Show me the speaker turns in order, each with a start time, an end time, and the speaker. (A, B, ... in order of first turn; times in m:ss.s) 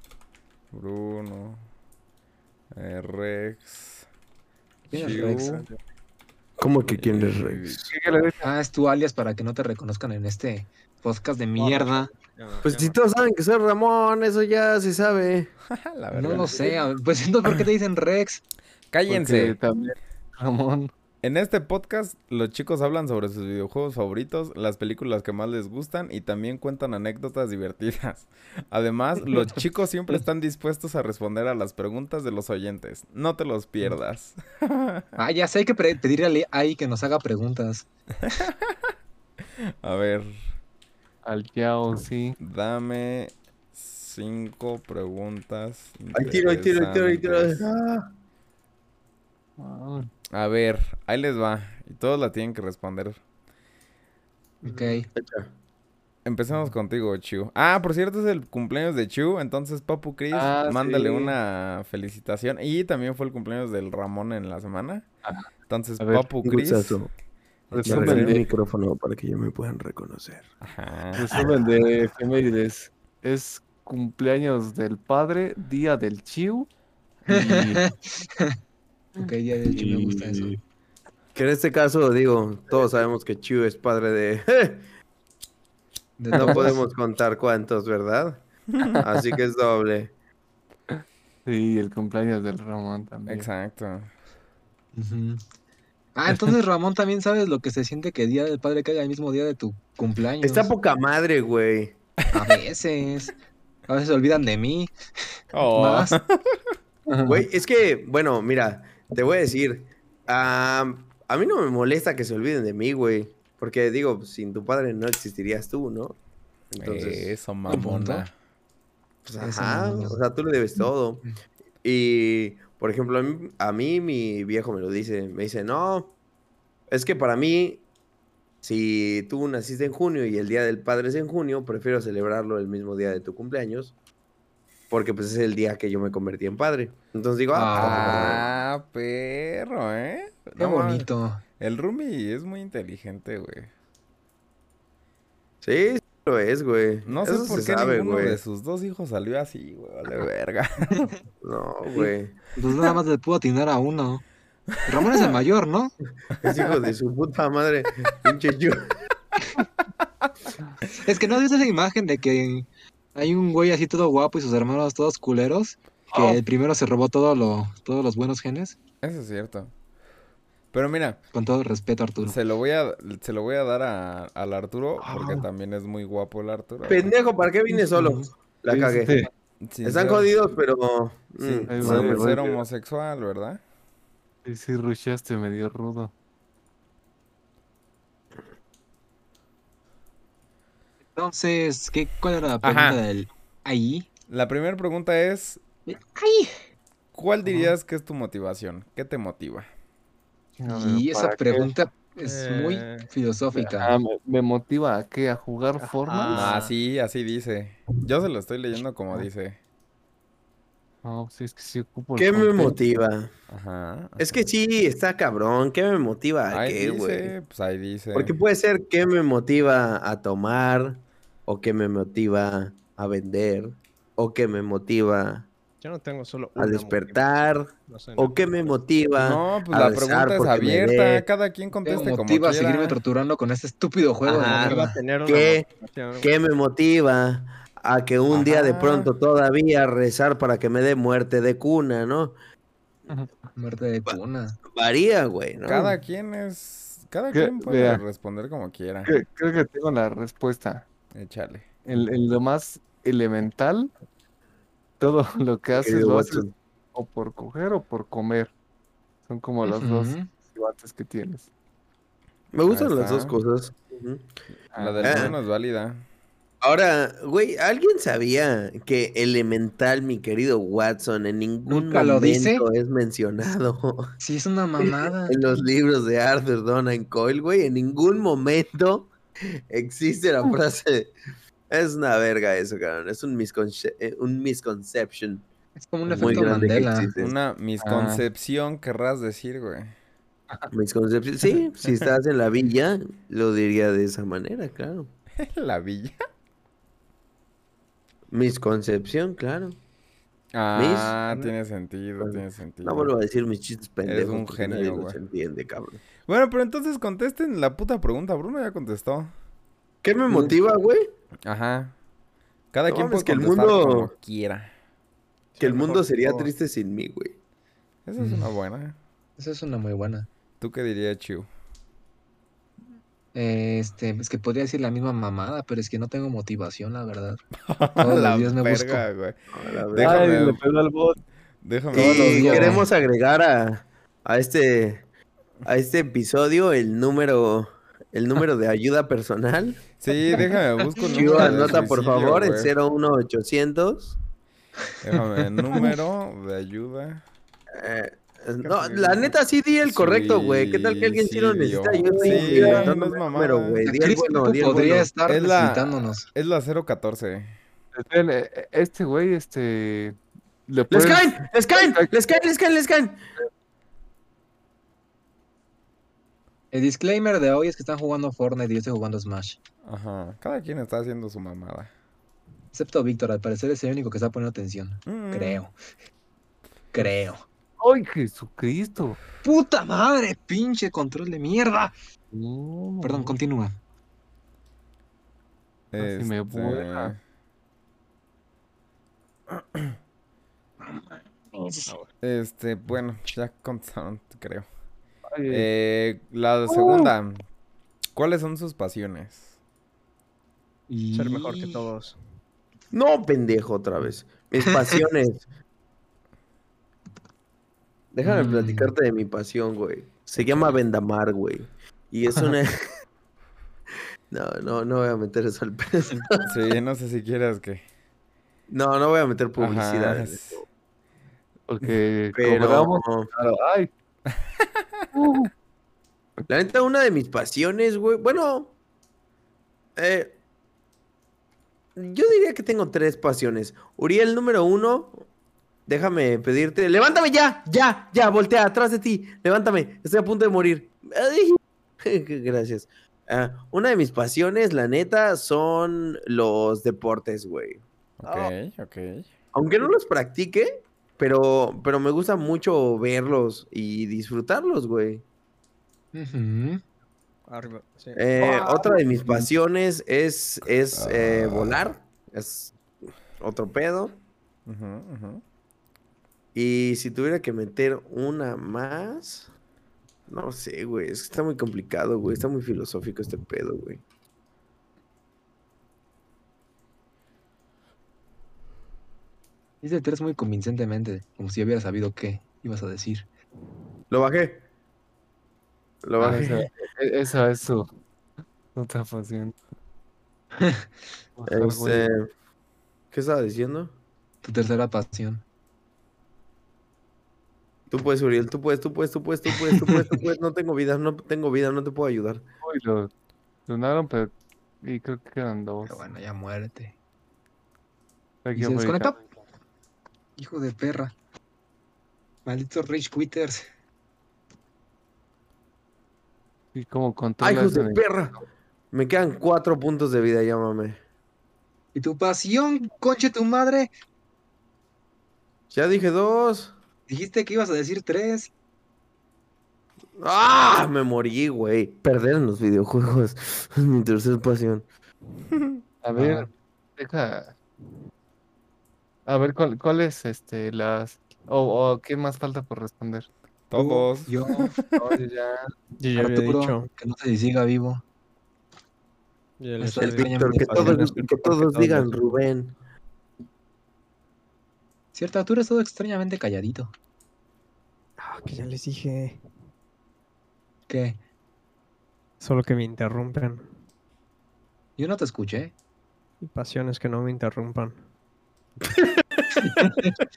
0:00.7-0:01.6 A
0:02.7-0:04.0 A
0:04.9-0:05.6 B
0:04.9-0:05.6 A
0:04.9-0:05.8 C
0:06.6-0:07.9 D
0:06.9-0:08.3 A
0:07.9-0:08.5 E
0:08.4-0:12.1 B
0:11.6-0:13.0 C
0:12.6-0:15.5 D
0:15.7-0:16.7 A
0:16.1-0:18.4 B
0:18.9-0:19.6 A
0:19.1-0:20.9 E
0:21.2-0:35.1 A
0:35.2-0:37.8 B
0:38.2-0:38.9 A
0:39.6-0:40.5 A
0:41.2-0:42.4 E
0:42.4-0:47.7 A
0:46.1-0:48.1 D
0:49.6-0:50.1 E
0:50.3-0:53.2 A
0:54.6-0:55.1 B
0:54.6-0:55.0 E
0:55.1-0:55.5 D
0:56.2-1:05.1 A
1:00.3-1:01.4 E
1:05.7-1:07.0 A
1:06.0-1:06.2 E
1:06.4-1:07.1 D
1:07.7-1:08.4 A
1:07.7-1:08.5 E
1:07.8-1:10.5 D
1:10.6-1:11.3 A
1:11.1-1:16.7 E
1:17.2-1:17.8 E
1:17.3-1:18.5 B
1:19.2-1:20.6 B
1:19.7-1:20.6 E
1:21.3-1:24.8 D
1:26.2-1:26.8 B
1:26.3-1:26.8 E
1:26.3-1:28.4 D
1:29.0-1:30.1 D
1:31.4-1:33.5 E
1:33.3-1:34.1 A
1:35.0-1:35.4 B
1:36.2-1:40.7 B
1:40.4-1:42.0 D
1:42.3-1:43.3 B
1:43.9-1:44.9 B
1:45.5-1:46.6 A
1:45.7-1:46.2 B
1:47.1-1:47.4 E
1:47.2-1:56.2 D
1:56.7-1:57.4 D
1:56.8-1:58.3 A
1:57.7-1:58.3 B
1:59.2-2:01.2 D
1:59.4-2:00.2 B
2:01.8-2:06.1 D
2:06.9-2:07.8 D
2:08.6-2:13.9 D
2:14.9-2:18.5 D
2:17.5-2:18.3 B
2:17.7-2:21.1 A
2:20.6-2:21.4 B
2:21.6-2:23.7 A
2:25.6-2:28.4 D
2:27.0-2:31.0 A
2:31.4-2:32.3 D
2:32.0-2:34.2 B
2:34.8-2:35.9 B
2:34.9-2:35.3 A
2:36.4-2:38.8 D
2:39.8-2:40.3 A
2:41.0-2:48.8 B
2:49.0-2:49.7 A
2:50.7-2:51.2 A
2:51.3-2:52.4 B
2:52.2-2:57.1 A
2:55.0-2:55.5 E
2:56.9-2:59.3 D
2:57.7-2:58.3 B
2:58.7-2:59.3 E
2:59.6-3:00.3 A
2:59.8-3:02.3 D
3:01.7-3:02.6 E
3:01.8-3:03.6 A
3:04.4-3:06.1 E
3:11.2-3:14.1 B
3:12.6-3:13.0 A
3:14.3-3:15.6 A
3:15.9-3:16.6 B
3:17.1-3:19.7 A
3:17.4-3:17.7 E
3:20.6-3:21.7 E
3:20.7-3:23.9 B
3:22.2-3:23.1 C
3:23.6-3:26.5 E
3:25.8-3:26.4 C
3:26.3-3:26.6 D
3:26.3-3:29.6 A
3:31.0-3:32.8 E
3:32.2-3:33.3 D
3:33.5-3:34.5 A
3:34.2-3:37.3 D
3:36.5-3:38.3 A
3:38.1-3:45.5 D
3:45.8-3:48.8 C
3:46.6-3:51.2 D
3:49.2-3:53.0 A
3:51.8-3:55.0 B
3:54.2-3:56.3 C
3:54.3-4:02.3 D
3:58.3-3:59.1 A
4:03.6-4:04.6 B
4:04.7-4:05.9 D
4:05.6-4:09.1 A
4:07.3-4:08.0 E
4:09.0-4:10.9 E
4:11.1-4:11.7 A
4:11.8-4:13.9 E
4:15.0-4:18.5 E
4:15.7-4:16.5 D
4:19.2-4:21.5 E
4:19.6-4:20.3 B
4:22.5-4:24.3 D
4:22.7-4:23.4 A
4:24.7-4:25.4 E
4:24.7-4:26.0 A
4:25.0-4:25.3 D
4:26.6-4:34.1 D
4:31.7-4:32.6 B
4:34.2-4:35.4 B
4:34.8-4:39.1 D
4:39.7-4:41.1 D
4:41.7-4:45.5 D
4:45.8-4:47.1 B
4:46.1-4:46.5 E
4:46.2-4:47.3 D
4:47.2-4:49.9 A
4:47.8-4:48.2 E
4:50.7-4:55.1 D
4:51.4-4:52.1 E
4:55.4-4:56.2 A
4:58.3-4:59.8 D
5:00.5-5:03.1 A
5:00.7-5:01.5 D
5:02.2-5:06.0 D
5:04.0-5:05.2 A
5:06.2-5:09.3 A
5:10.0-5:11.1 D
5:11.4-5:11.9 A
5:12.7-5:14.7 A
5:12.9-5:14.1 D
5:15.5-5:16.5 C
5:15.6-5:17.4 D
5:18.0-5:19.0 A
5:18.2-5:18.5 B
5:19.4-5:20.3 B
5:20.6-5:21.5 A
5:23.3-5:27.4 B
5:27.6-5:29.4 A
5:28.0-5:29.0 B
5:29.5-5:30.3 D
5:29.9-5:30.6 A
5:30.0-5:31.2 E
5:31.6-5:32.8 A
5:31.9-5:32.8 B
5:31.9-5:35.0 D
5:35.6-5:39.8 D
5:40.0-5:42.7 A
5:41.1-5:44.2 D
5:45.0-5:47.2 A
5:47.8-5:55.1 D
5:48.6-5:49.3 C
5:49.8-5:53.9 A
5:52.3-5:52.7 B
5:52.4-5:52.7 E
5:53.8-5:56.2 B
5:55.2-5:57.6 A
5:57.9-6:02.1 E
6:00.9-6:03.2 D
6:06.7-6:09.6 B
6:09.8-6:11.9 A
6:12.7-6:15.7 B
6:15.0-6:15.6 A
6:16.9-6:17.4 B
6:17.8-6:19.2 E
6:19.4-6:21.9 B
6:22.3-6:23.3 E
6:23.0-6:23.8 B
6:25.9-6:27.2 A
6:26.0-6:27.1 E
6:31.5-6:31.9 B
6:32.2-6:34.7 A
6:35.3-6:35.7 E
6:35.5-6:37.4 A
6:36.7-6:37.1 E
6:38.1-6:39.5 A
6:40.9-6:41.8 B
6:41.1-6:42.2 C
6:42.9-6:45.4 D
6:48.1-6:52.8 D
6:48.2-6:48.9 B
6:54.3-6:56.5 D
6:56.4-6:57.8 A
6:58.7-7:00.6 D
6:59.6-7:00.6 A
7:01.7-7:03.9 E
7:02.3-7:03.3 D
7:04.3-7:05.1 A
7:05.1-7:05.5 E
7:06.5-7:08.7 D
7:10.0-7:10.4 D
7:12.0-7:15.2 D
7:15.9-7:27.8 D
7:28.2-7:29.3 A
7:29.5-7:35.2 D
7:36.1-7:36.8 B
7:37.5-7:38.6 C
7:38.2-7:42.8 D
7:40.9-7:41.8 A
7:43.4-7:44.2 D
7:44.6-7:45.4 A
7:46.5-7:49.5 D
7:50.3-7:54.0 D
7:59.8-8:03.3 B
8:04.1-8:04.6 D
8:06.0-8:06.7 D
8:06.2-8:07.9 E
8:08.7-8:09.6 E
8:11.4-8:12.1 E
8:11.5-8:12.3 D
8:13.1-8:13.9 D
8:14.4-8:15.4 B
8:17.9-8:22.4 D
8:22.6-8:23.1 E
8:23.7-8:26.0 E
8:25.8-8:26.9 B
8:28.4-8:29.3 E
8:28.6-8:29.2 B
8:30.4-8:31.1 B
8:32.4-8:33.6 B
8:36.7-8:38.4 E
8:37.4-8:41.0 D
8:41.9-8:43.9 B
8:45.7-8:46.7 D
8:47.1-8:48.5 B
8:50.2-8:54.9 D
8:56.0-8:57.6 E
8:56.1-8:56.5 B
8:59.2-9:03.3 E
9:03.7-9:05.0 A
9:03.7-9:04.7 B
9:04.9-9:05.7 E
9:06.0-9:06.9 C
9:06.2-9:08.0 B
9:09.6-9:12.1 C
9:09.8-9:11.1 B
9:10.0-9:12.8 D
9:15.1-9:16.9 B
9:18.2-9:19.4 C
9:20.9-9:21.2 B
9:22.4-9:23.7 C
9:25.0-9:25.7 B
9:26.4-9:28.0 C
9:28.9-9:30.0 D
9:29.6-9:30.1 B